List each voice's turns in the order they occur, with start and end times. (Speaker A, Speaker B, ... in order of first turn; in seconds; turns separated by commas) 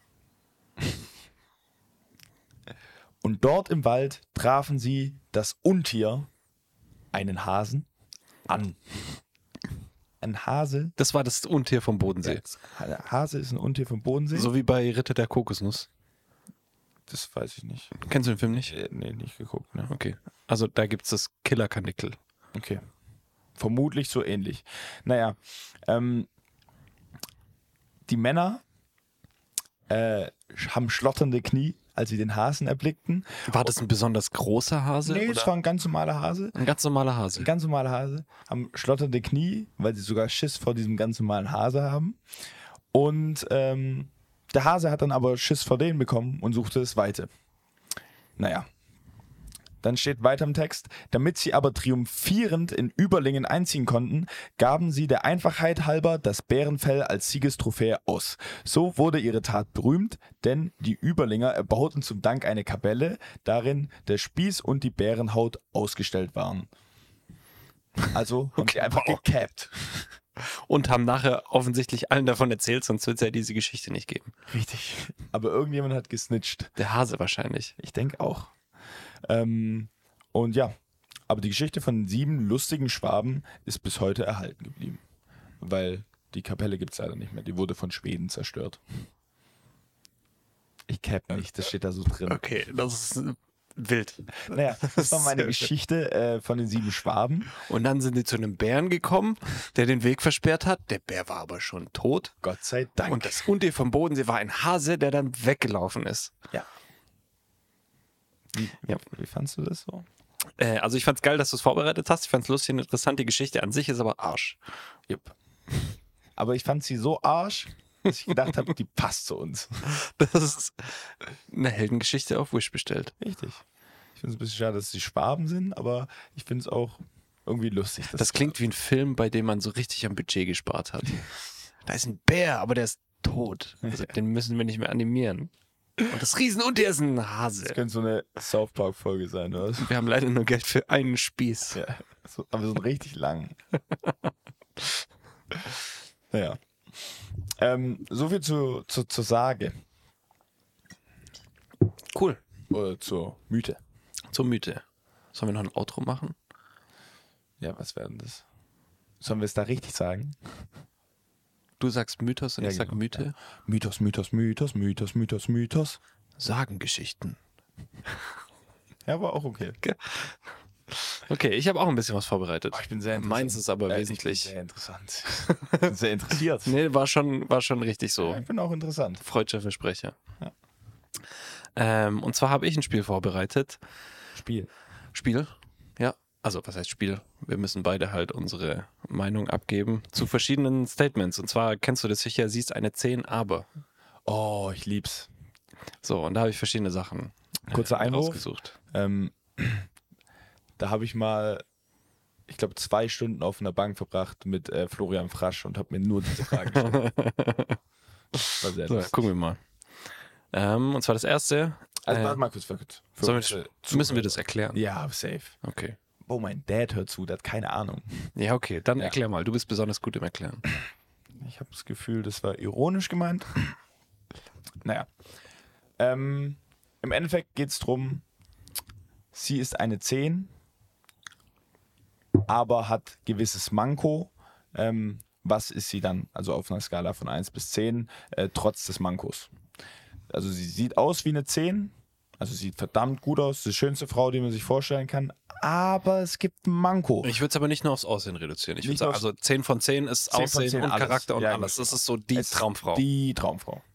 Speaker A: 3.2-6.3, Speaker A: 7.1-7.9, Speaker A: 8.5-9.2, Speaker A: 10.2-10.9, Speaker B: 11.0-12.6, Speaker A: 12.2-14.5, Speaker B: 14.3-15.9, Speaker A: 17.1-18.0, Speaker B: 18.0-18.7, Speaker A: 18.6-19.9, Speaker B: 19.9-22.2, Speaker A: 22.6-22.8, Speaker A: 23.6-26.3, Speaker A: 28.1-28.6, Speaker A: 29.9-33.7, Speaker B: 33.5-35.5, Speaker A: 35.0-36.6, Speaker B: 36.5-37.5, Speaker A: 37.4-42.2, Speaker A: 42.9-47.3, Speaker A: 48.4-48.7, Speaker A: 49.8-66.7, Speaker A: 68.1-70.1, Speaker B: 68.6-69.2, Speaker B: 70.4-74.3, Speaker A: 74.5-76.8, Speaker B: 76.8-77.7, Speaker A: 77.8-78.5, Speaker A: 79.3-80.7, Speaker A: 81.3-85.0, Speaker A: 85.6-88.8, Speaker A: 90.9-92.4, Speaker B: 92.3-95.7, Speaker A: 94.5-97.5, Speaker B: 97.5-102.3, Speaker A: 102.4-103.5, Speaker B: 103.1-106.3, Speaker A: 108.5-110.1, Speaker B: 110.6-114.6, Speaker A: 115.1-115.3, Speaker A: 116.4-119.9, Speaker B: 119.8-123.1, Speaker A: 123.2-123.6, Speaker A: 124.2-128.6, Speaker B: 128.1-131.3, Speaker B: 131.9-135.5, Speaker B: 136.0-137.8, Speaker A: 137.7-139.9, Speaker B: 139.8-141.8, Speaker A: 141.7-143.6, Speaker A: 146.3-149.8, Speaker B: 152.1-152.4, Speaker A: 152.7-153.8, Speaker B: 154.3-156.3, Speaker A: 157.6-158.4, Speaker A: 159.2-160.7, Speaker B: 161.8-163.3, Speaker A: 162.6-166.0, Speaker B: 166.4-167.4, Speaker A: 169.1-169.8, Speaker B: 169.8-170.4, Speaker B: 170.9-174.5, Speaker A: 172.7-176.8, Speaker B: 175.5-175.9, Speaker B: 176.6-178.4, Speaker A: 178.2-179.2, Speaker B: 179.2-180.2, Speaker B: 181.8-183.8, Speaker A: 184.3-184.7, Speaker B: 185.1-193.7, Speaker A: 194.3-195.3, Speaker B: 196.0-198.8, Speaker A: 197.7-199.9, Speaker A: 200.8-201.6, Speaker A: 202.5-207.0, Speaker B: 206.5-207.8, Speaker B: 208.3-209.6, Speaker A: 208.5-209.3, Speaker B: 210.5-212.4, Speaker A: 212.0-215.6, Speaker B: 213.2-214.8, Speaker B: 215.6-216.0, Speaker A: 216.2-218.3, Speaker B: 218.4-220.7, Speaker A: 221.4-223.8, Speaker A: 224.8-225.1, Speaker A: 226.0-228.2, Speaker A: 229.3-230.5, Speaker A: 232.5-239.5, Speaker A: 240.3-247.3, Speaker B: 247.2-253.1, Speaker A: 248.8-249.3, Speaker A: 250.3-253.8